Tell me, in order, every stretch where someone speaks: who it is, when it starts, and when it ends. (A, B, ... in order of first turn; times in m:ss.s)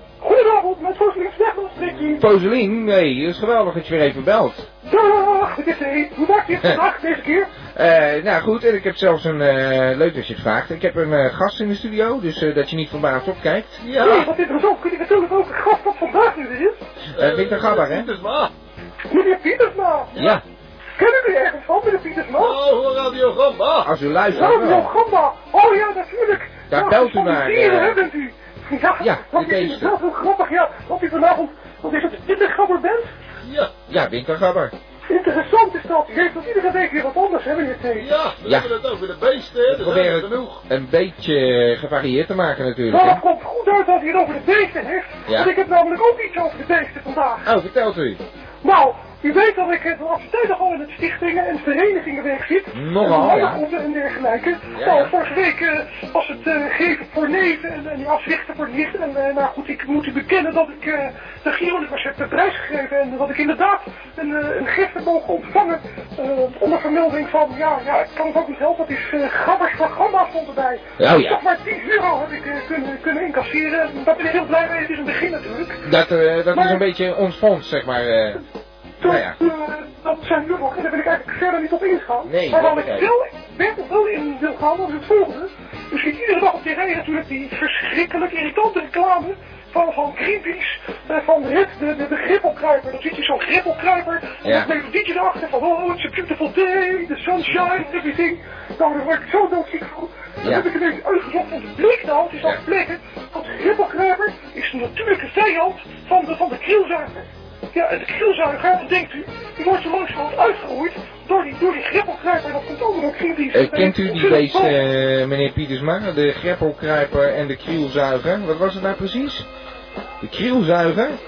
0:00.2-0:02.3 A
0:02.2-0:04.7 B
0:04.8-0:07.5 A
0:07.7-0:13.8 B
0:13.8-0:14.3 C
0:14.0-0:16.8 A
0:17.2-0:18.1 B
0:17.2-0:18.5 C
0:19.1-0:20.1 A
0:20.1-0:20.4 C
0:20.2-0:20.4 B
0:21.0-0:22.6 A
0:22.4-0:23.9 C
0:23.8-0:24.9 B
0:24.3-0:33.1 A
0:26.7-0:28.0 B
0:29.0-0:29.9 B
0:33.4-0:33.7 C
0:33.9-0:34.7 B
0:35.1-0:38.1 A
0:38.0-0:40.6 C
0:38.4-0:38.7 B
0:39.7-0:43.2 B
0:42.9-0:47.5 A
0:45.3-0:45.5 B
0:47.4-0:48.2 B
0:48.6-1:15.8 A
0:52.7-0:53.6 B
0:54.8-0:55.1 B
1:11.0-1:11.4 B
1:15.8-1:18.4 B
1:16.5-1:16.8 A
1:19.0-1:54.8 A
1:19.0-1:19.4 B
1:22.3-1:23.1 B
1:34.4-1:34.7 B
1:40.4-1:40.7 B
1:53.5-1:59.5 B
2:00.2-2:01.2 B